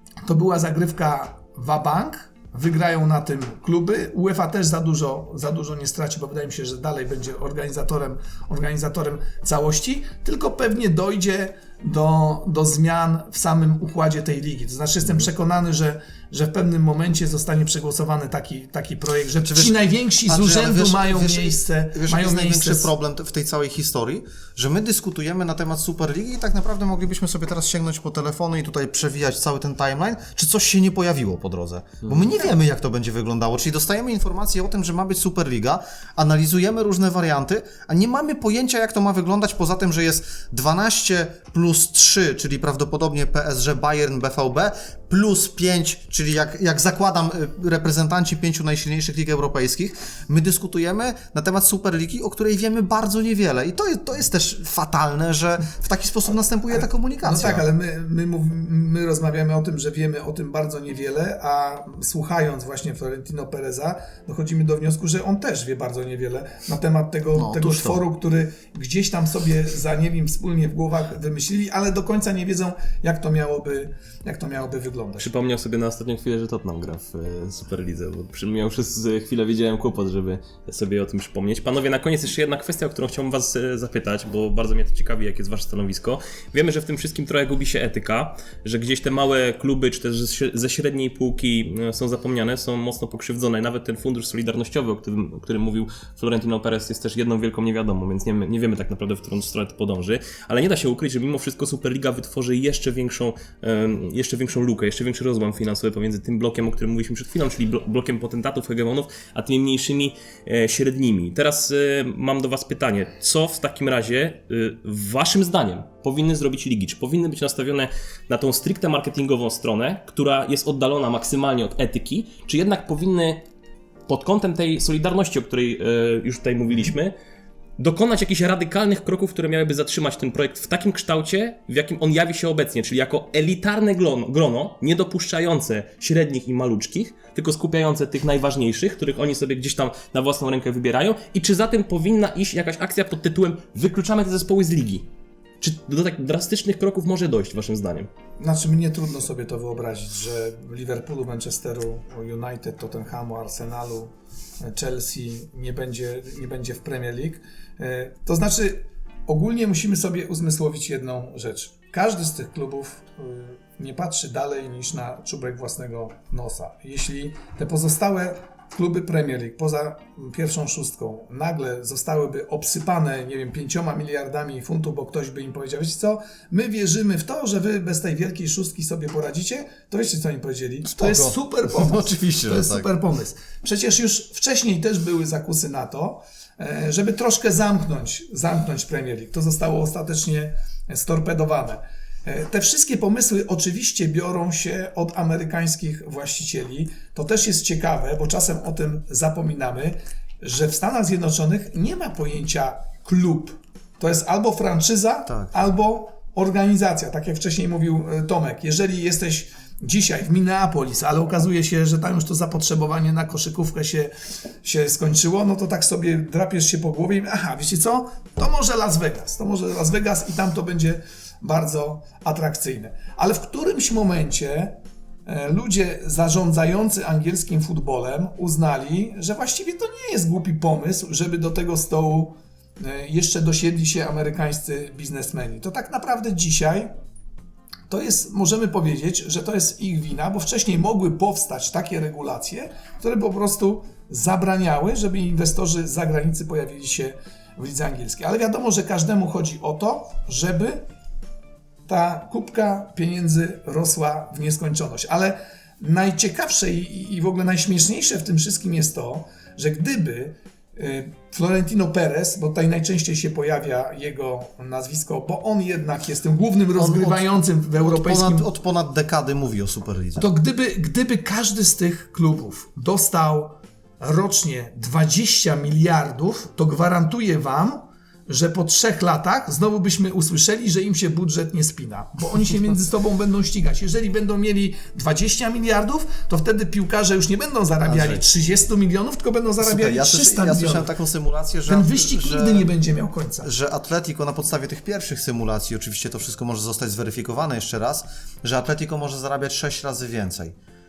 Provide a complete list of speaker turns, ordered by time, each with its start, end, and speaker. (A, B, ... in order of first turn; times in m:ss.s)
0:00.2-0:22.9 A
0:19.4-0:57.6 B
0:56.7-1:15.3 A
1:07.3-1:08.0 B
1:15.2-2:03.4 C
2:04.1-2:07.1 C
2:07.8-2:25.0 C
2:25.6-2:28.1 C
2:28.4-3:34.1 A
3:00.8-3:02.9 B
3:25.3-3:25.5 B
3:34.6-3:56.9 A
3:57.9-4:10.8 A
4:11.8-4:28.5 A
4:26.8-4:30.3 B
4:30.2-4:50.9 A
4:47.8-4:48.2 B
4:49.6-4:52.7 B
4:51.6-4:53.5 A
4:53.4-5:00.6 B